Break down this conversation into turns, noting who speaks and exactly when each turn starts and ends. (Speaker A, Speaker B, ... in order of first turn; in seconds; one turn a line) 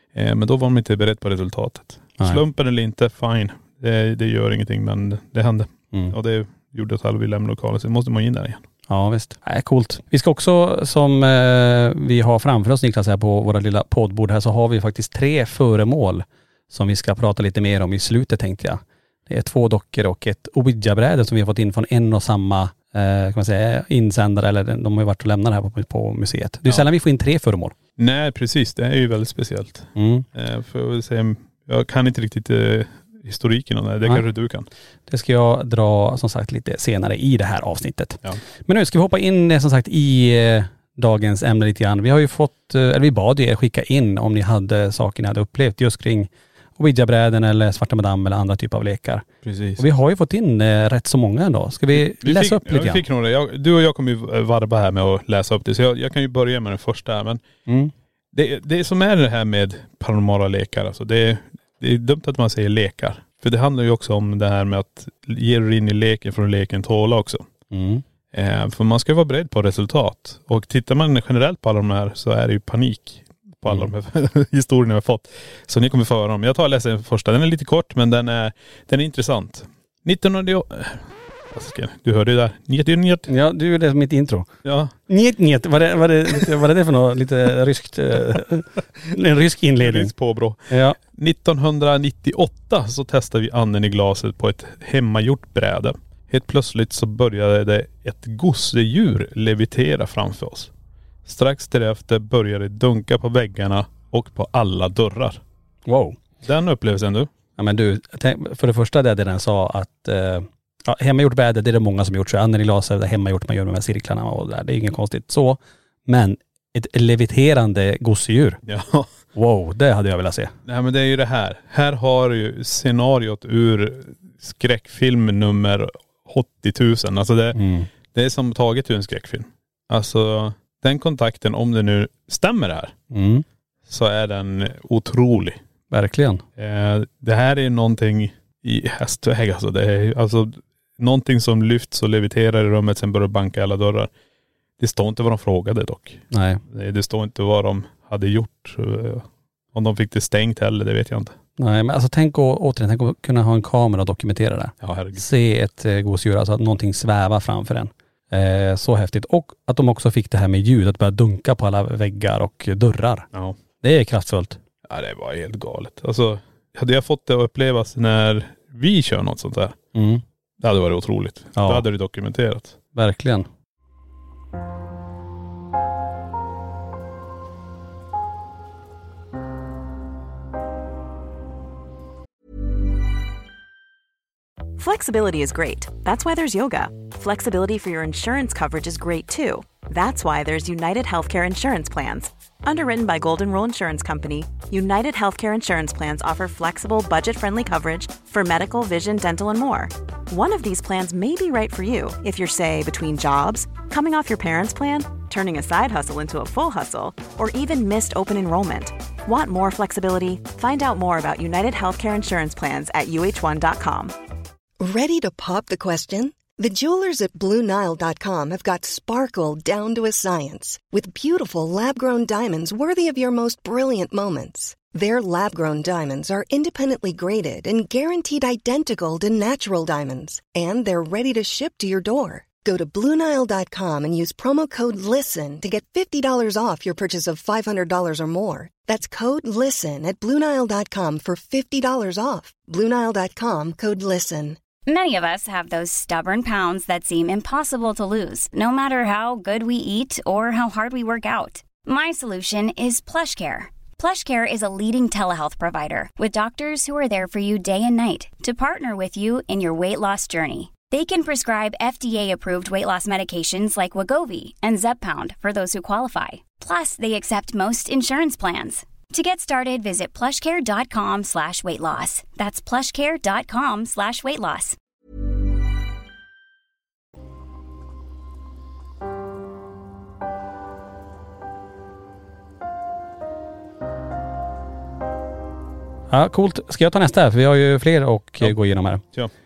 Speaker A: 0.1-8.6
Speaker B: 8.9-27.7
Speaker A: 28.0-34.7
Speaker B: 29.9-30.3
Speaker B: 35.1-49.3
Speaker A: 49.4-49.8
Speaker B: 49.8-53.0
Speaker A: 51.9-57.4
Speaker B: 57.6-57.9
Speaker A: 58.3-67.5
Speaker B: 67.7-68.0
Speaker A: 68.3-83.3
Speaker B: 83.3-84.5
Speaker A: 84.6-84.9
Speaker B: 85.1-90.1
Speaker A: 89.8-100.7
Speaker B: 90.7-91.0
Speaker A: 101.2-105.4
Speaker B: 105.8-106.2
Speaker A: 106.4-107.3
Speaker B: 107.6-118.6
Speaker A: 118.7-119.1
Speaker B: 119.3-120.5
Speaker A: 120.7-127.6
Speaker B: 127.5-127.9
Speaker A: 128.1-132.9
Speaker B: 133.1-133.4
Speaker A: 133.9-135.6
Speaker B: 135.9-136.4
Speaker A: 136.6-144.1
Speaker A: 144.8-151.3
Speaker B: 146.3-146.6
Speaker B: 151.6-163.3
Speaker A: 154.8-155.2
Speaker B: 163.8-164.6
Speaker A: 164.9-169.8
Speaker B: 169.9-170.2
Speaker A: 170.6-172.8
Speaker B: 171.6-171.8
Speaker B: 172.9-173.5
Speaker C: 184.8-214.1
Speaker D: 214.8-244.6
Speaker E: 244.8-274.8
Speaker B: 286.1-289.0